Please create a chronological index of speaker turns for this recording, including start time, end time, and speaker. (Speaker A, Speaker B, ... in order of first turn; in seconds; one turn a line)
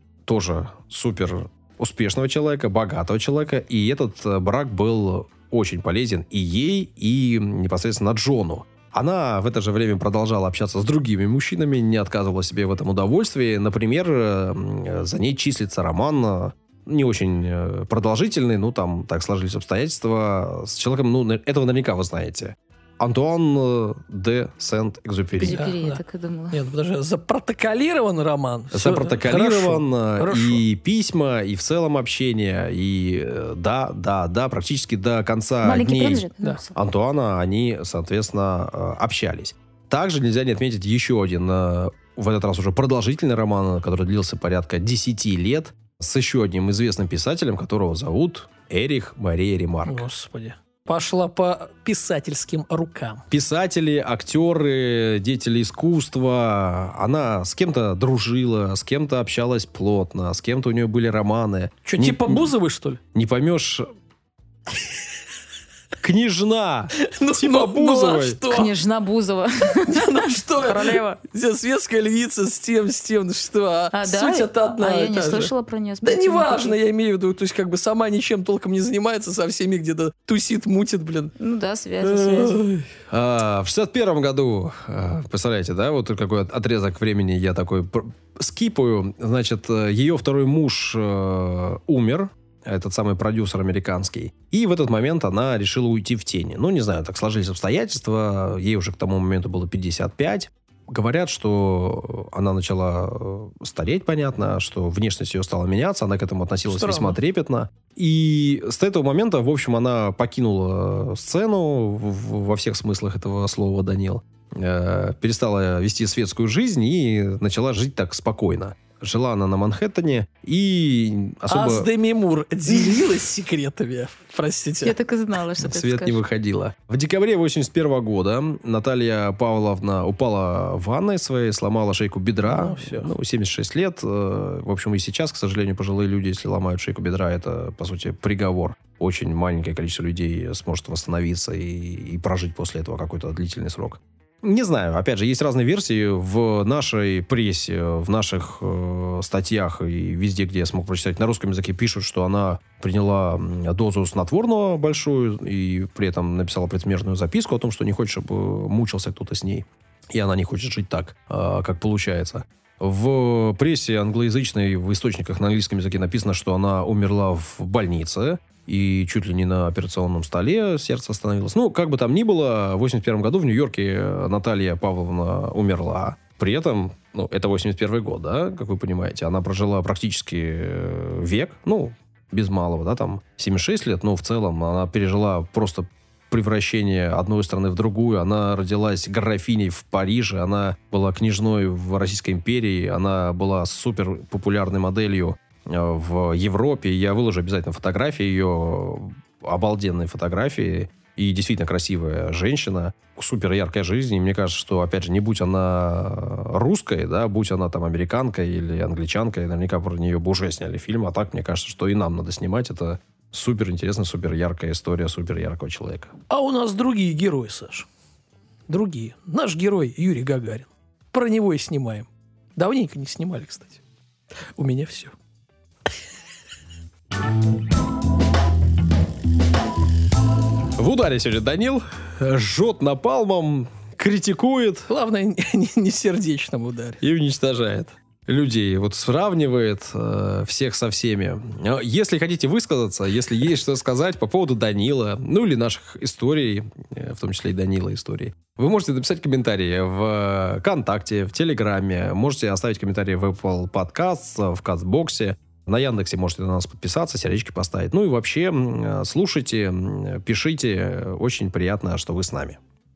Speaker A: 0.3-25.6
Speaker B: 25.4-26.6
Speaker C: 25.4-30.6
Speaker A: 28.7-50.1
Speaker B: 35.6-36.8
Speaker C: 49.9-53.2
Speaker A: 53.3-62.5
Speaker C: 61.9-63.0
Speaker A: 63.1-63.9
Speaker A: 66.0-68.4
Speaker C: 67.0-68.7
Speaker B: 68.5-71.2
Speaker C: 69.8-81.3
Speaker B: 73.9-76.8
Speaker B: 81.4-82.6
Speaker C: 82.0-82.9
Speaker A: 83.1-121.9
Speaker C: 106.7-107.2
Speaker C: 121.5-125.0
Speaker B: 124.8-126.2
Speaker A: 125.6-216.1
Speaker C: 132.4-133.1
Speaker C: 216.3-217.9
Speaker C: 218.7-223.8
Speaker C: 224.6-225.2
Speaker A: 230.8-234.9
Speaker C: 234.9-237.0
Speaker A: 237.0-262.6